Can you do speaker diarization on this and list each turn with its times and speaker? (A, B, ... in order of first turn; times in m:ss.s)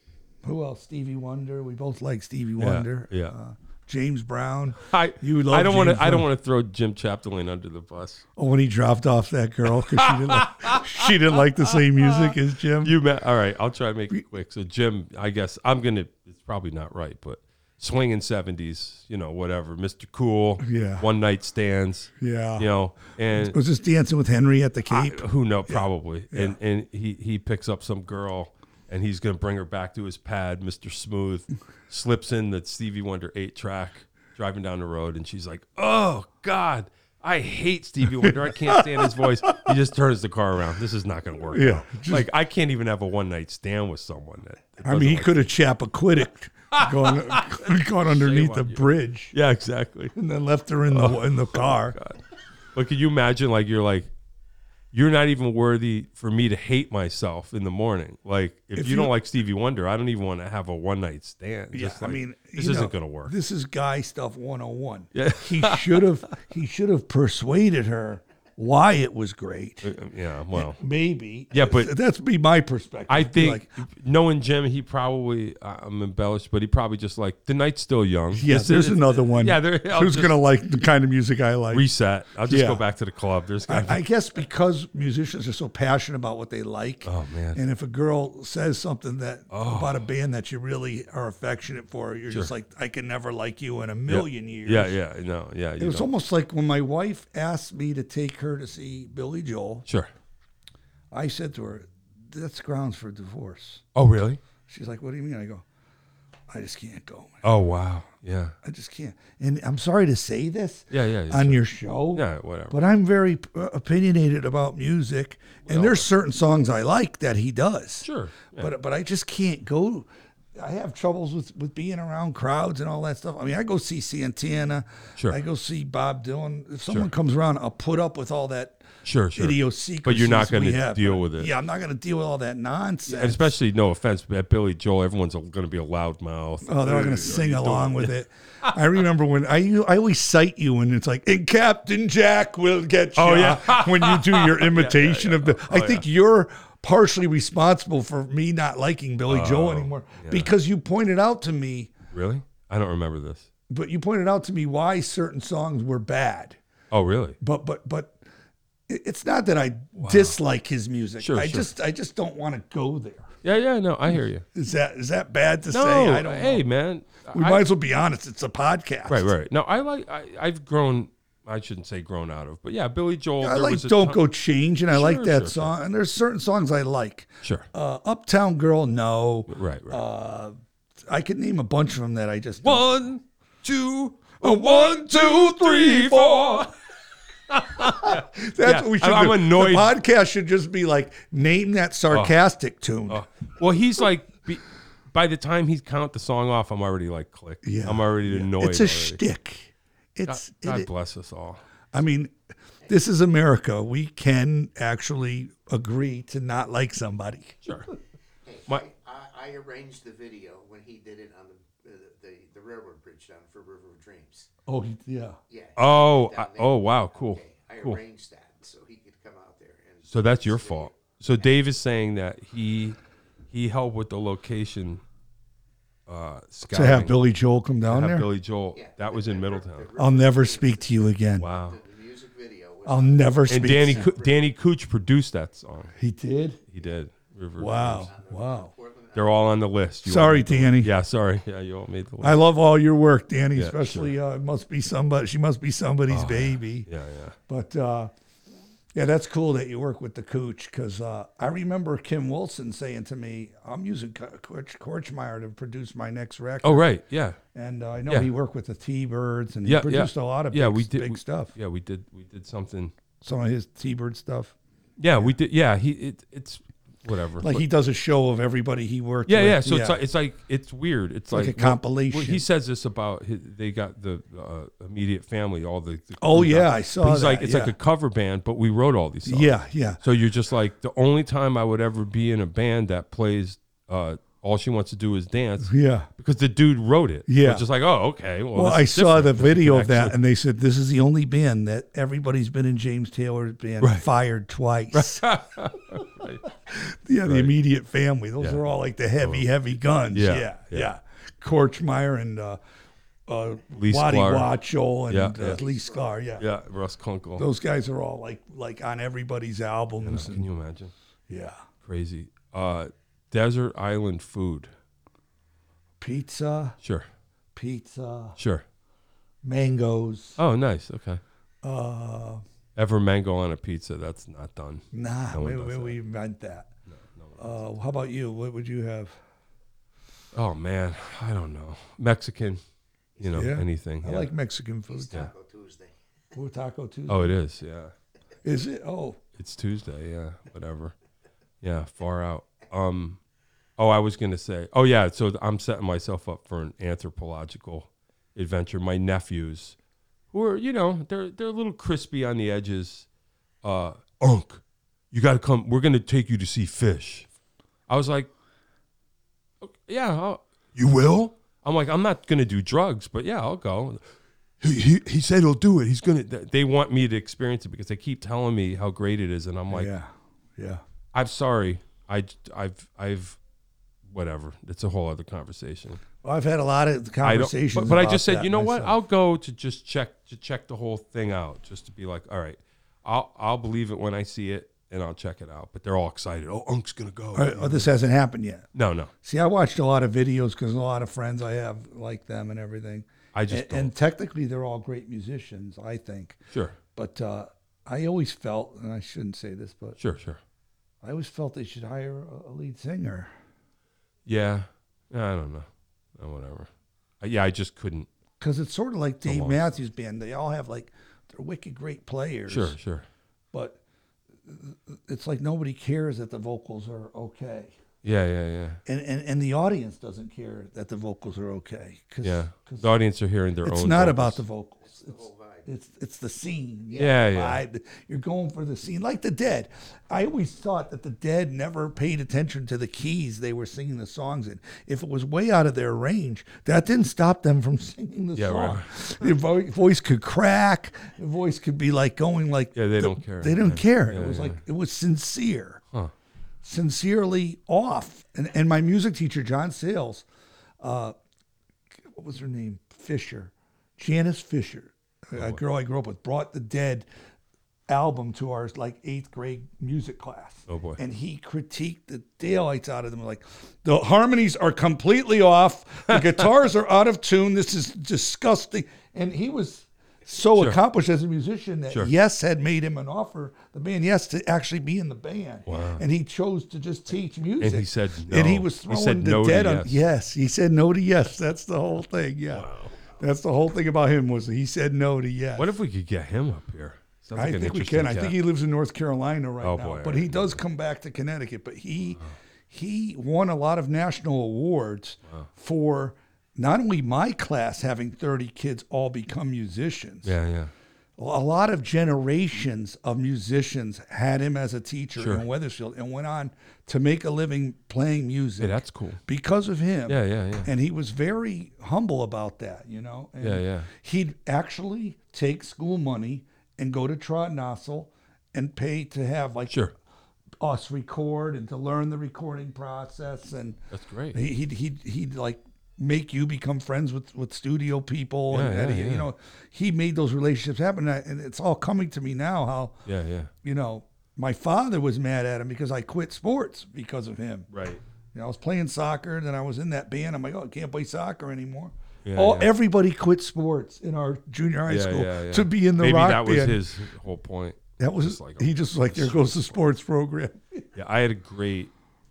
0:00.4-0:06.3 A
0:02.6-0:03.3 B
0:04.8-0:08.2 B
0:08.4-0:13.0 A
0:09.7-0:23.6 B
0:20.6-0:21.0 A
0:22.2-0:22.7 A
0:23.3-0:26.6 A
0:24.9-0:45.4 B
0:38.2-0:39.7 A
0:41.5-0:42.3 A
0:44.8-0:49.3 A
0:46.7-0:50.1 B
0:50.1-0:52.0 A
0:50.9-0:52.2 B
0:52.7-0:54.1 B
0:54.9-1:03.3 B
0:58.7-0:59.1 A
1:01.7-1:09.9 A
1:05.1-1:06.3 B
1:09.8-1:10.8 B
1:10.5-1:13.8 A
1:11.5-1:11.9 B
1:13.1-1:20.4 B
1:18.3-1:21.8 A
1:21.7-1:24.0 B
1:22.4-1:22.8 A
1:23.7-1:34.9 A
1:27.0-1:27.6 B
1:29.5-1:30.0 B
1:34.1-1:36.1 B
1:35.8-1:39.8 A
1:41.1-1:43.8 A
1:43.9-1:44.4 B
1:44.7-1:45.6 A
1:46.5-1:47.4 A
1:47.4-1:48.6 B
1:48.6-2:08.8 A
1:50.9-1:52.8 B
1:55.6-1:56.1 B
1:58.0-1:58.7 B
2:09.0-2:11.5 B
2:09.3-2:13.5 A
2:13.0-2:18.7 B
2:16.6-2:31.9 A
2:23.2-2:26.0 B
2:29.3-2:30.5 B
2:32.1-2:33.5 B
2:33.7-2:36.6 A
2:36.9-2:37.4 B
2:37.4-2:38.2 A
2:38.9-2:43.3 A
2:40.0-2:40.4 B
2:41.2-2:41.7 B
2:43.4-2:44.4 B
2:44.5-2:46.6 A
2:45.7-2:47.6 B
2:47.3-2:49.3 A
2:49.1-2:54.2 B
2:53.4-3:00.5 A
2:54.9-2:55.7 B
2:57.4-2:57.7 B
2:59.5-3:00.0 B
3:01.0-3:02.9 A
3:02.6-3:06.7 B
3:04.4-3:06.7 A
3:07.5-3:10.0 B
3:07.6-3:13.2 A
3:12.1-3:12.4 B
3:13.1-3:19.2 B
3:17.6-3:20.9 A
3:20.3-3:21.6 B
3:21.9-3:22.4 A
3:22.9-3:27.6 A
3:27.6-3:27.9 B
3:28.4-3:34.5 C
3:34.7-3:35.4 A
3:35.5-3:41.5 C
3:35.8-3:38.0 B
3:40.1-3:43.0 B
3:43.5-3:45.0 B
3:46.1-3:47.1 B
3:46.7-3:48.3 A
3:47.8-3:49.9 B
3:48.7-3:54.5 C
3:50.0-3:51.5 A
3:51.4-3:51.8 B
3:52.8-3:54.1 A
3:53.5-3:55.9 B
3:56.0-3:56.6 A
3:56.7-3:58.1 B
3:57.6-3:58.7 A
3:58.0-3:59.6 C
3:59.1-4:02.4 B
4:00.0-4:00.9 A
4:02.2-4:06.9 A
4:03.5-4:04.1 B
4:06.1-4:07.4 B
4:07.5-4:08.1 A
4:08.9-4:16.8 A
4:16.6-4:17.4 B
4:17.5-4:21.5 A
4:19.6-4:22.9 B
4:23.2-4:24.5 A
4:25.0-4:27.6 B
4:27.4-4:30.0 A
4:29.2-4:50.1 B
4:31.3-4:32.4 A
4:36.2-4:37.7 A
4:39.2-4:40.0 A
4:45.6-4:46.1 A
4:47.3-4:47.6 A
4:48.5-4:55.3 A
4:54.9-4:56.4 B
4:56.7-5:02.6 A
4:57.2-4:57.5 B
4:59.2-4:59.5 B
5:00.1-5:00.9 B
5:03.3-5:06.4 A
5:03.8-5:04.5 B
5:05.1-5:05.6 B
5:06.4-5:07.5 B
5:07.4-5:10.4 A
5:10.0-5:10.9 B
5:11.3-5:11.6 A
5:11.8-5:14.7 B
5:16.0-5:16.8 A
5:16.8-5:17.1 B
5:17.5-5:18.4 A
5:18.4-5:18.6 B
5:19.4-5:20.4 A
5:20.4-5:21.2 B
5:21.6-5:22.4 A
5:22.8-5:25.9 B
5:24.9-5:26.7 A
5:26.9-5:27.6 B
5:27.4-5:29.2 A
5:30.3-5:32.6 B
5:33.2-5:33.5 C
5:33.2-5:34.3 B
5:33.3-5:35.2 A
5:34.9-5:36.0 C
5:36.3-5:37.3 A
5:37.1-5:37.9 B
5:38.4-5:39.2 A
5:39.4-5:40.9 B
5:41.6-5:43.2 B
5:43.8-5:49.8 B
5:50.3-5:53.1 B
5:53.6-5:57.3 B
5:57.9-5:58.3 B
5:59.6-6:04.0 B
6:04.6-6:09.9 B
6:09.7-6:10.8 A
6:11.1-6:13.4 B
6:14.1-6:16.0 B
6:16.2-6:18.9 A
6:17.2-6:27.9 B
6:27.3-6:28.7 A
6:28.7-6:29.1 B
6:29.2-6:36.4 A
6:33.3-6:33.9 B
6:36.5-6:36.8 B
6:36.9-6:40.0 A
6:40.0-6:40.4 B
6:41.0-6:43.3 A
6:44.2-6:48.1 B
6:48.4-6:52.8 A
6:49.2-6:49.7 B
6:52.5-6:53.0 B
6:53.5-6:53.8 A
6:54.4-6:57.7 A
6:58.0-6:58.8 B
6:58.8-7:02.9 A
7:02.2-7:04.4 B
7:03.6-7:25.8 A
7:04.8-7:05.7 C
7:06.9-7:07.6 B
7:18.4-7:19.2 B
7:22.7-7:24.6 B
7:26.6-7:30.2 A
7:30.8-7:31.2 A
7:32.0-7:37.1 A
7:37.9-8:05.7 A
7:40.7-7:41.0 B
7:55.6-7:56.0 B
7:57.6-8:00.0 B
8:02.5-8:03.0 B
8:05.6-8:08.4 B
8:07.4-8:20.3 A
8:09.6-8:10.6 B
8:20.2-8:20.7 B
8:21.2-8:39.7 A
8:25.2-8:25.4 B
8:28.6-8:29.2 B
8:30.1-8:30.7 B
8:33.4-8:33.9 B
8:39.7-8:39.9 B
8:40.6-8:43.8 A
8:43.9-8:44.4 B
8:44.3-8:53.0 A
8:48.5-8:49.3 B
8:53.0-8:53.5 B
8:53.6-8:57.7 A
8:57.7-8:58.0 B
8:58.3-9:06.8 A
9:02.2-9:02.7 B
9:04.9-9:09.5 B
9:08.0-9:10.8 A
9:10.9-9:11.9 B